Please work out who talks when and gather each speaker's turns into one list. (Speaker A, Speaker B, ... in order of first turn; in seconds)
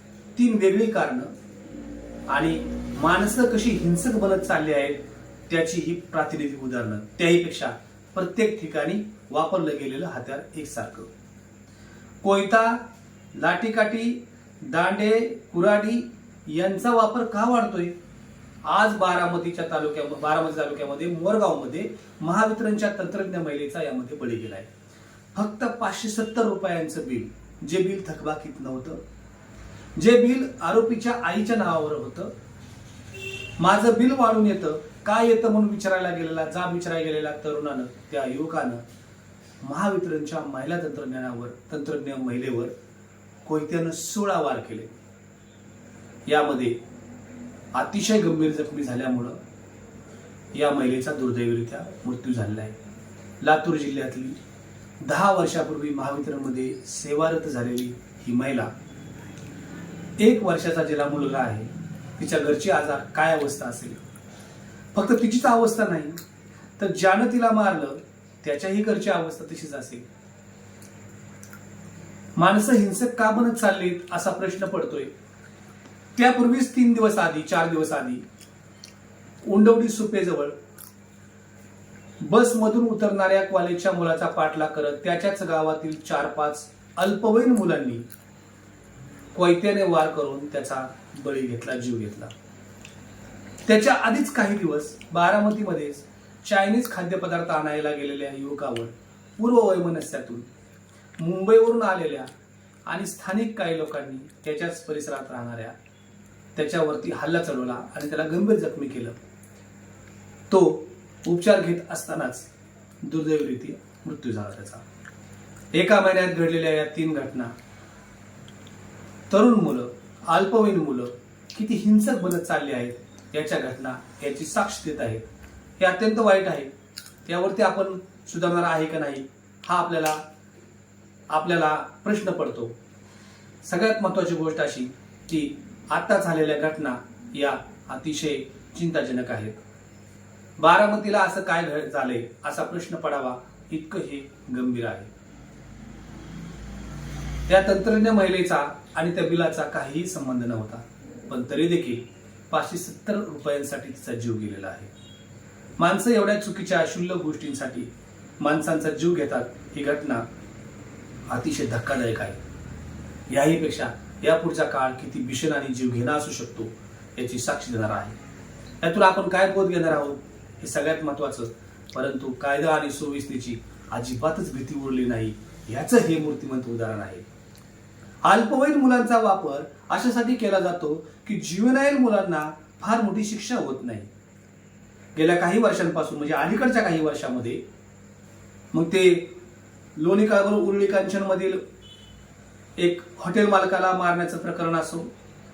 Speaker A: 0.4-1.3, 2.3-11.1, 12.2-17.9, 18.6-24.7, 25.3-29.0, 30.0-32.3, 33.6-38.8, 39.6-42.7, 43.5-44.9, 46.3-46.8, 47.7-49.4, 50.5-52.8, 53.4-54.4, 55.0-58.7, 60.2-64.0, 64.9-66.2, 66.8-70.1, 72.4-75.1, 76.2-78.2, 79.4-80.6, 82.2-88.1, 89.3-92.3, 93.7-100.5, 101.2-102.3, 102.9-105.8, 106.5-109.2, 110.5-112.5, 113.0-114.8, 115.7-117.5, 119.3-125.3, 125.8-126.7, 127.3-130.2, 131.3-132.8, 133.6-139.6, 140.6-145.1, 147.5-154.9, 155.8-160.3, 161.3-162.4, 163.3-168.2, 168.8-177.3, 178.2-184.1, 185.2-187.6, 188.7-189.3, 190.0-191.6, 192.8-195.1